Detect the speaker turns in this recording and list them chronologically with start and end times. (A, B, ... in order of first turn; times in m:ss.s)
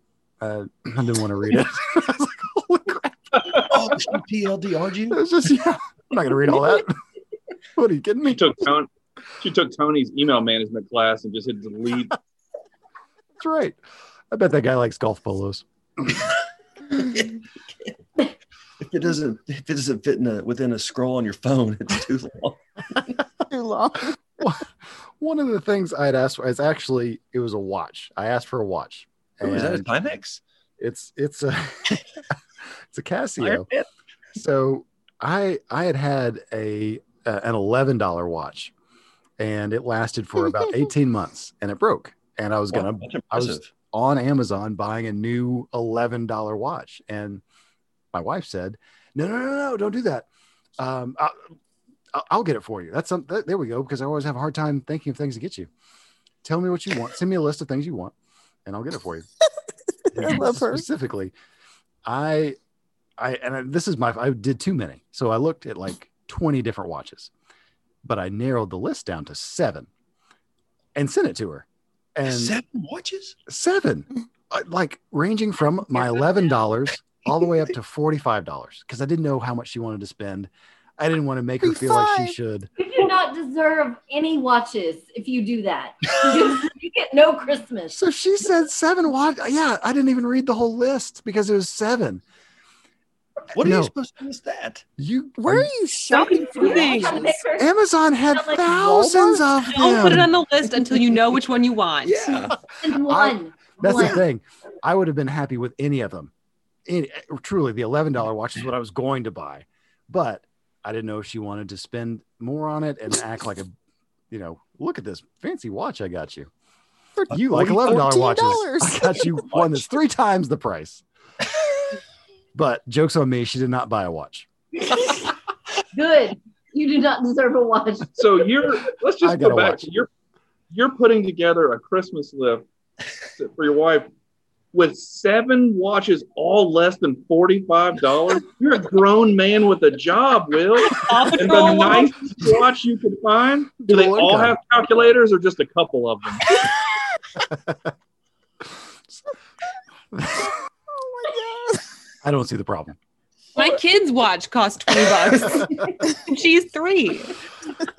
0:00.4-0:03.5 A
0:03.6-0:05.2 B
0:05.1-0:07.0 A
0:07.8-0:08.6 A
0:08.3-0:08.9 C
0:09.4-0:12.2 C
0:13.4-0:13.8 A
0:14.3-0:16.3 A
0:16.9-0:18.0 B
0:18.8-0:23.1 B
0:23.5-0:24.2 D
0:24.4-0:29.9 A
0:29.4-0:30.4 B
0:30.8-0:32.0 A
0:32.9-0:33.7 A
0:33.4-0:33.8 B
0:34.3-0:38.7 A
0:39.4-0:47.4 A
0:42.7-0:43.7 B
0:48.1-0:50.3 A
0:50.8-0:51.4 A
0:52.1-0:55.7 A
0:56.4-0:58.1 A
0:58.6-0:59.3 A
1:00.1-1:01.3 A
1:00.1-1:00.8 D
1:02.0-1:02.6 A
1:03.2-1:07.3 A
1:08.0-1:09.9 A
1:10.9-1:12.6 A
1:12.2-1:13.4 B
1:13.5-1:22.7 A
1:21.6-1:22.3 D
1:22.8-1:28.0 E
1:27.9-1:32.2 A
1:33.5-1:34.8 B
1:33.5-1:33.9 A
1:35.0-1:35.7 A
1:35.4-1:37.3 D
1:36.1-1:37.3 F
1:36.2-1:37.7 E
1:37.6-1:40.3 A
1:38.3-1:38.6 E
1:38.6-1:39.5 D
1:39.6-1:42.3 F
1:42.0-1:42.6 B
1:42.8-1:44.2 E
1:42.9-1:46.3 A
1:46.8-1:53.7 A
1:54.3-1:56.5 A
1:57.2-1:59.2 D
1:57.3-2:01.0 A
1:57.5-1:57.9 B
1:59.5-1:59.8 B
2:02.5-2:04.5 A
2:05.9-2:08.1 E
2:08.2-2:10.1 C
2:09.2-2:09.9 A
2:10.7-2:12.6 C
2:13.4-2:14.1 C
2:14.7-2:26.6 C
2:20.9-2:22.5 F
2:23.8-2:24.6 A
2:27.4-2:27.9 A
2:30.1-2:30.5 A
2:30.9-2:31.9 D
2:32.2-2:33.0 A
2:33.6-2:37.4 F